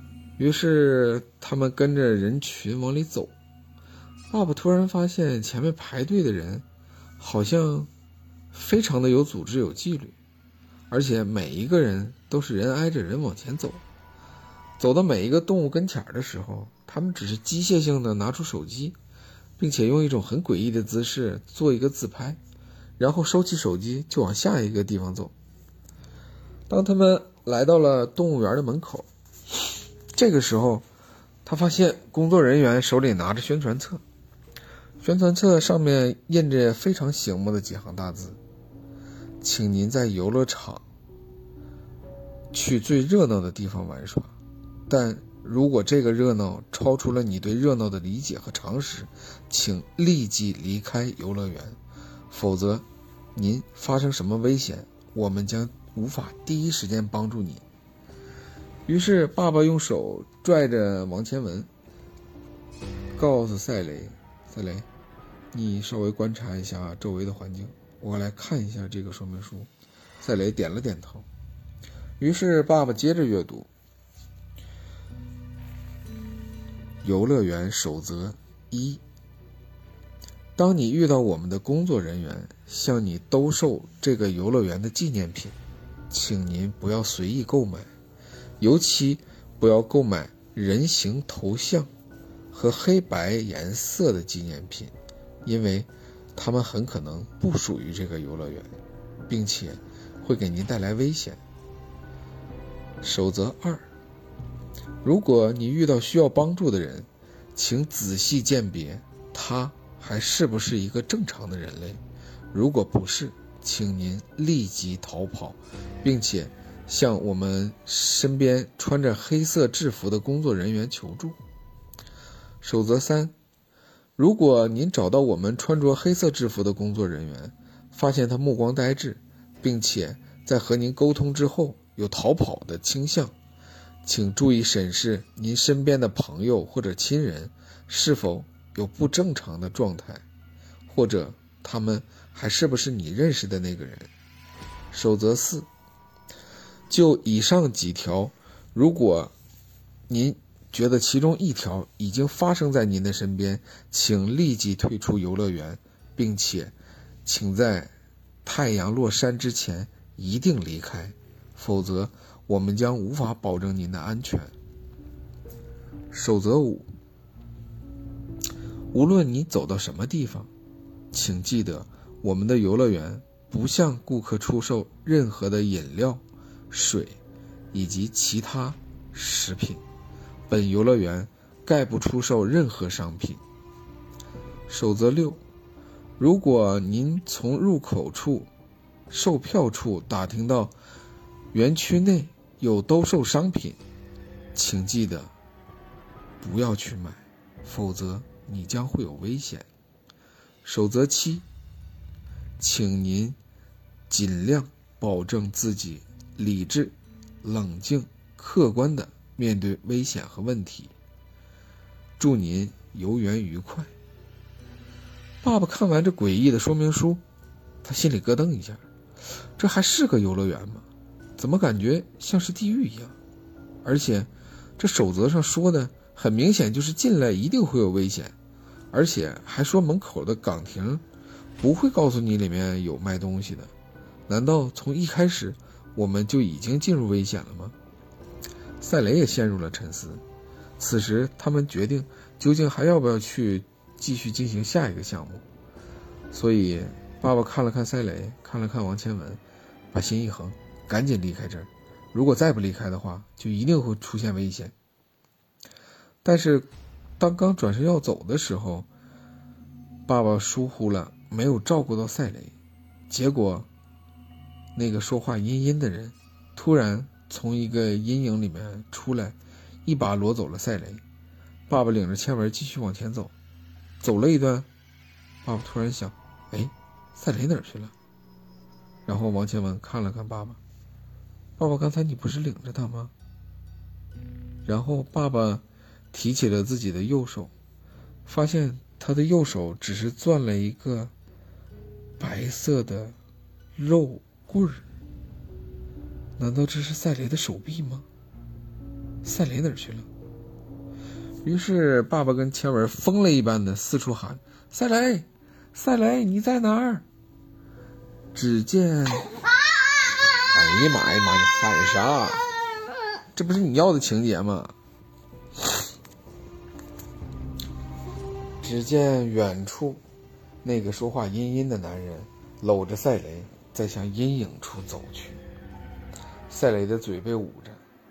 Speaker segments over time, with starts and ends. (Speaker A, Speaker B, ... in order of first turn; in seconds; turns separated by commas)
Speaker A: 0.4-3.3, Speaker A: 4.3-6.7, Speaker A: 7.2-7.9, Speaker A: 8.5-10.2, Speaker A: 10.9-13.8, Speaker A: 14.8-19.0, Speaker A: 19.6-22.4, Speaker A: 23.0-25.3, Speaker A: 26.7-29.1, Speaker A: 30.1-30.8, Speaker A: 31.4-34.0, Speaker A: 35.0-38.4, Speaker A: 39.4-40.8, Speaker A: 42.5-44.3, Speaker A: 44.9-51.8, Speaker A: 52.3-57.6, Speaker A: 58.9-61.7, Speaker A: 63.1-64.9, Speaker A: 65.5-69.7, Speaker A: 70.2-71.3, Speaker A: 72.2-73.7, Speaker A: 77.0-79.0, Speaker A: 80.6-85.6, Speaker A: 86.1-87.9, Speaker A: 88.6-91.9, Speaker A: 92.5-94.9, Speaker A: 95.5-98.7, Speaker A: 99.3-101.4, Speaker A: 103.0-103.8, Speaker A: 105.0-112.0, Speaker A: 112.5-121.4, Speaker A: 122.6-123.3, Speaker A: 124.2-133.3, Speaker A: 134.0-140.2, Speaker A: 140.9-144.1, Speaker A: 144.9-145.7, Speaker A: 146.9-149.3, Speaker A: 150.1-156.7, Speaker A: 157.2-157.9, Speaker A: 158.4-164.5, Speaker A: 166.1-166.9, Speaker A: 168.9-170.5, Speaker A: 171.1-177.2, Speaker A: 177.7-179.8, Speaker A: 180.5-183.4, Speaker A: 184.7-185.4, Speaker A: 186.2-188.5, Speaker A: 189.1-190.8, Speaker A: 191.5-193.8, Speaker A: 194.6-195.3, Speaker A: 196.4-199.7, Speaker A: 200.6-201.5, Speaker A: 202.6-203.4, Speaker A: 204.1-210.9, Speaker A: 212.2-213.9, Speaker A: 215.4-217.2, Speaker A: 217.8-218.8, Speaker A: 219.6-220.8, Speaker A: 221.4-223.2, Speaker A: 223.8-228.3, Speaker A: 228.9-231.0, Speaker A: 231.6-233.7, Speaker A: 234.3-237.8, Speaker A: 238.8-240.2, Speaker A: 240.8-245.4, Speaker A: 246.3-249.4, Speaker A: 249.9-254.7, Speaker A: 256.2-256.7, Speaker A: 257.2-258.9, Speaker A: 260.1-262.5, Speaker A: 263.1-263.7, Speaker A: 264.8-271.0, Speaker A: 271.7-273.3, Speaker A: 274.0-274.7, Speaker A: 275.4-277.9, Speaker A: 279.1-280.6, Speaker A: 281.6-283.1, Speaker A: 284.7-287.5, Speaker A: 288.3-291.1, Speaker A: 292.2-293.2, Speaker A: 293.8-294.9, Speaker A: 296.4-298.1, Speaker A: 299.2-300.1, Speaker A: 301.4-307.1, Speaker A: 308.3-309.4, Speaker A: 310.4-312.5, Speaker A: 313.4-314.8, Speaker A: 318.6-320.0, Speaker A: 320.6-325.4, Speaker A: 326.5-327.8